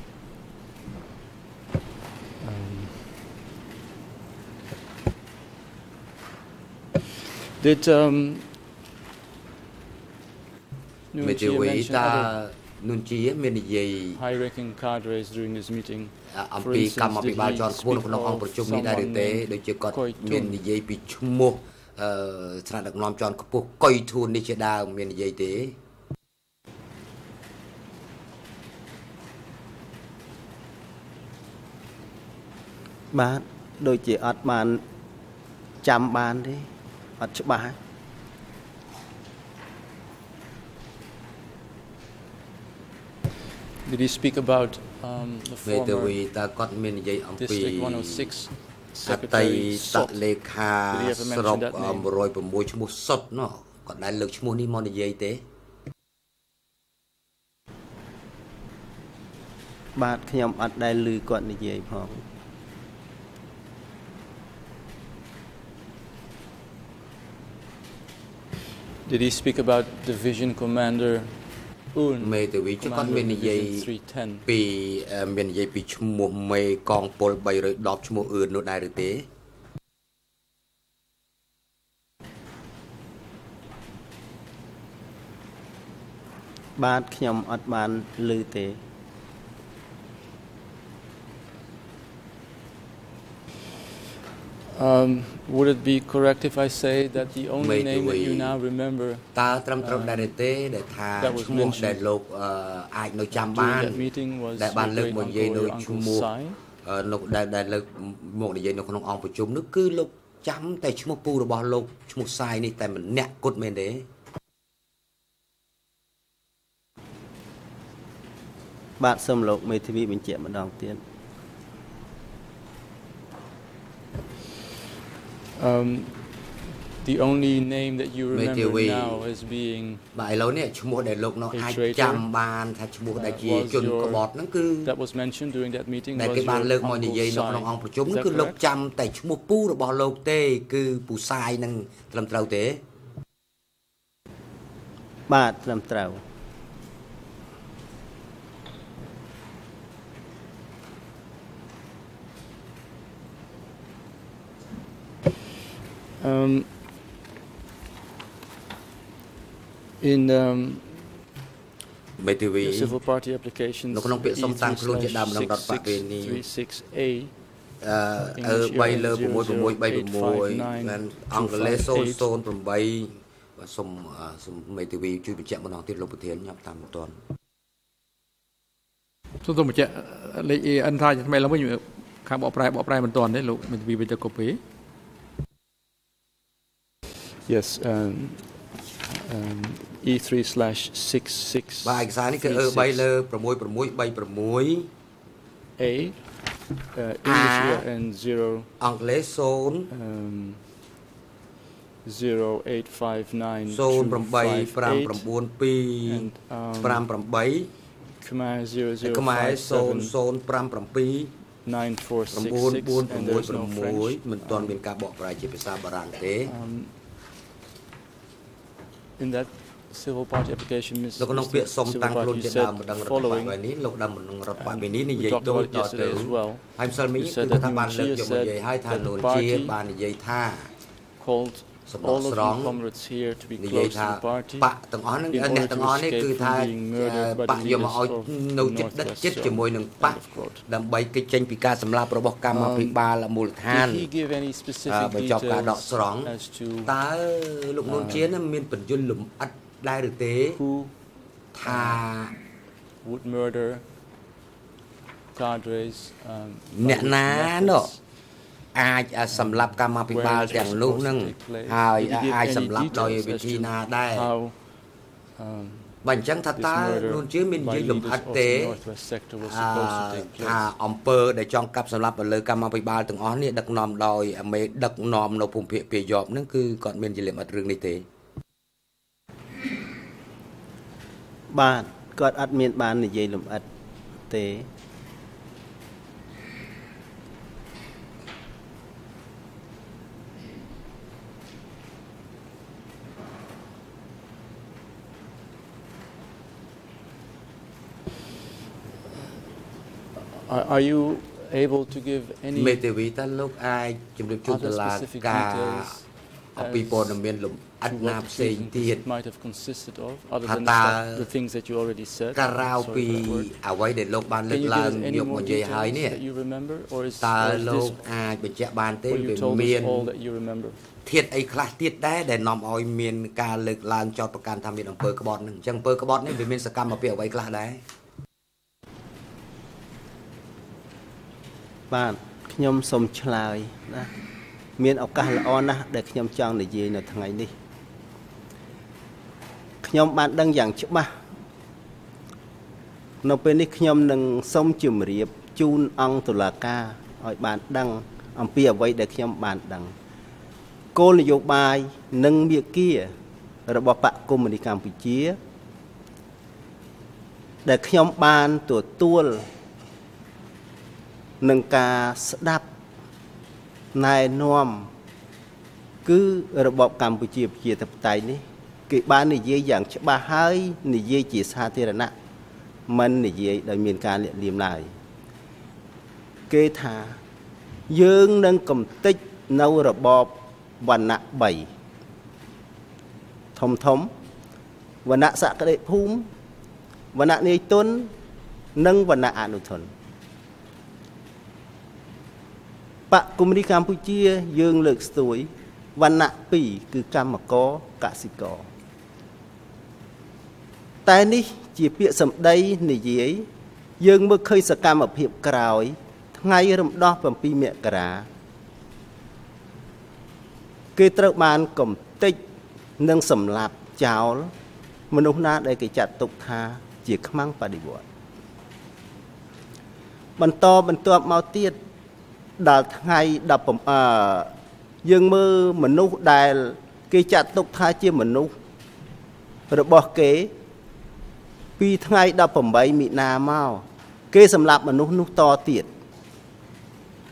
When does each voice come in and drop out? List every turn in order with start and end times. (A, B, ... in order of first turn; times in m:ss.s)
0:02.4-0:03.3 A
0:07.6-0:08.5 A
0:11.1-0:12.3 A
0:11.2-0:14.2 B
0:14.2-0:20.6 A
0:16.3-0:25.8 B
0:33.1-0:34.8 C
0:35.8-0:36.7 C
0:37.2-0:37.8 C
0:43.8-0:46.2 A
0:45.7-0:48.3 B
0:47.4-0:50.2 A
0:49.1-0:55.4 B
0:50.9-0:52.1 A
1:00.0-1:02.2 C
1:09.1-1:11.4 A
1:11.9-1:14.5 A
1:12.2-1:13.9 B
1:14.5-1:19.3 B
1:26.8-1:28.8 C
1:34.7-1:39.3 A
1:37.6-1:38.6 B
1:39.4-1:44.1 B
1:39.8-1:40.4 A
1:41.2-1:42.0 A
1:43.3-1:46.6 A
1:44.6-1:46.3 B
1:46.8-1:54.1 B
1:59.0-2:01.0 C
2:05.6-2:10.0 A
2:08.3-2:09.2 B
2:10.2-2:14.9 B
2:11.5-2:12.3 A
2:13.1-2:14.3 A
2:14.8-2:18.6 A
2:16.2-2:22.8 B
2:25.3-2:26.2 C
2:36.2-2:36.7 A
2:40.0-2:41.2 A
2:42.2-2:43.0 B
2:42.6-2:47.3 A
2:43.9-2:46.4 B
2:47.8-2:57.2 B
2:48.2-2:52.3 A
2:59.4-3:04.6 D
3:07.5-3:13.1 A
3:11.8-3:14.9 B
3:15.8-3:16.3 A
3:16.9-3:18.7 A
3:17.2-3:17.8 B
3:18.8-3:19.9 B
3:19.9-3:20.6 A
3:22.0-3:25.3 A
3:23.7-3:26.3 B
3:26.1-3:27.1 A
3:26.8-3:27.7 B
3:28.2-3:30.2 A
3:29.0-3:31.3 B
3:31.6-3:34.8 A
3:32.3-3:36.5 B
3:36.5-3:36.9 A
3:39.2-3:43.6 A
3:41.2-3:50.7 B
3:44.6-3:49.8 A
3:51.2-3:54.7 A
3:51.9-3:52.8 B
3:53.6-4:04.1 B
3:55.3-4:00.7 A
4:02.5-4:03.0 A
4:03.7-4:07.0 A
4:04.9-4:06.3 B
4:06.8-4:10.6 B
4:07.8-4:08.3 A
4:10.5-4:10.9 A
4:11.5-4:12.4 B
4:11.6-4:12.0 A
4:13.0-4:13.8 A
4:15.4-4:18.0 A
4:16.7-4:17.9 B
4:18.7-4:24.3 B
4:19.3-4:24.6 A
4:25.4-4:26.0 A
4:26.0-4:28.8 B
4:26.6-4:30.6 A
4:29.4-4:38.0 B
4:41.5-4:43.7 C
4:44.3-4:44.7 C
5:00.3-5:02.8 A
5:02.6-5:06.0 B
5:04.4-5:07.2 A
5:06.6-5:09.0 B
5:07.8-5:13.5 A
5:10.4-5:11.3 B
5:12.3-5:16.2 B
5:14.5-5:18.1 A
5:17.2-5:20.1 B
5:19.1-5:20.8 A
5:21.1-5:27.8 B
5:31.9-5:34.1 C
5:34.8-5:37.5 C
5:39.8-5:41.1 C
5:43.2-5:49.9 C
5:51.0-5:53.1 C
5:53.7-5:55.4 C
5:57.6-5:59.5 C
6:01.4-6:02.7 C
6:03.9-6:04.9 C
6:06.0-6:12.1 C
6:12.9-6:14.9 C
6:16.5-6:17.2 C
6:17.9-6:21.7 C
6:23.6-6:24.1 C
6:25.0-6:26.3 C
6:27.1-6:28.1 C
6:28.8-6:29.9 C
6:33.1-6:38.7 C
6:41.0-6:43.5 C
6:44.0-6:48.3 C
6:51.0-6:52.4 C
6:53.0-6:54.5 C
6:55.1-6:58.0 C
7:00.4-7:01.8 C
7:02.6-7:04.5 C
7:05.0-7:08.5 C
7:09.7-7:10.5 C
7:11.8-7:15.9 C